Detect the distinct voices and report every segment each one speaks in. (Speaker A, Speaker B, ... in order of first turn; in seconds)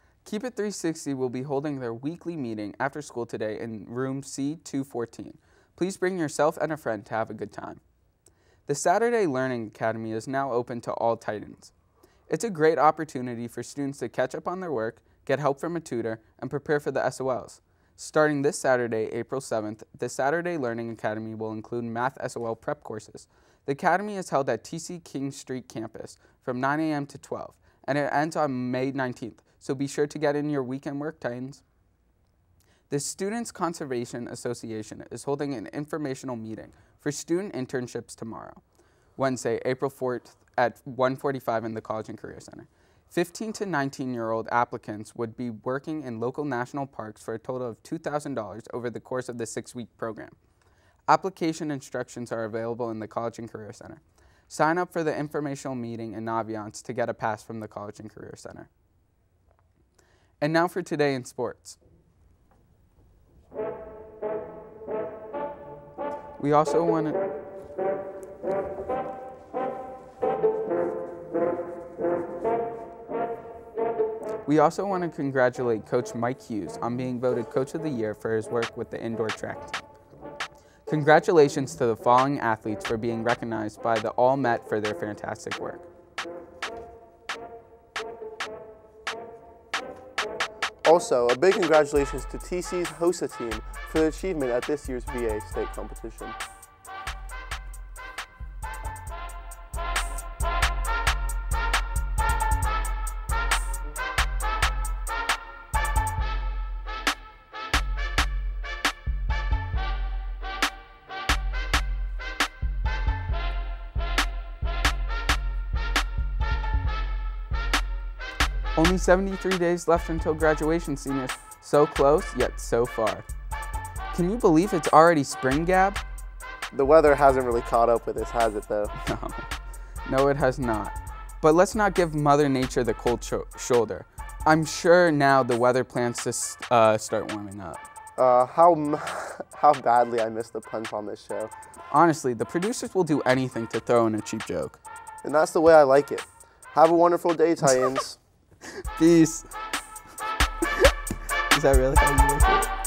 Speaker A: 0.2-7.8, 8.7-11.7, 12.3-31.6, 32.9-38.6, 39.2-50.4, 51.1-58.7, 60.4-61.8, 66.4-67.2, 74.4-79.8, 80.8-85.9, 118.8-123.2, 124.1-126.0, 129.0-129.5, 130.0-137.8, 141.9-144.8, 148.9-149.5, 151.5-152.7
Speaker B: 90.8-96.4, 126.7-128.9, 138.2-141.5, 145.2-148.2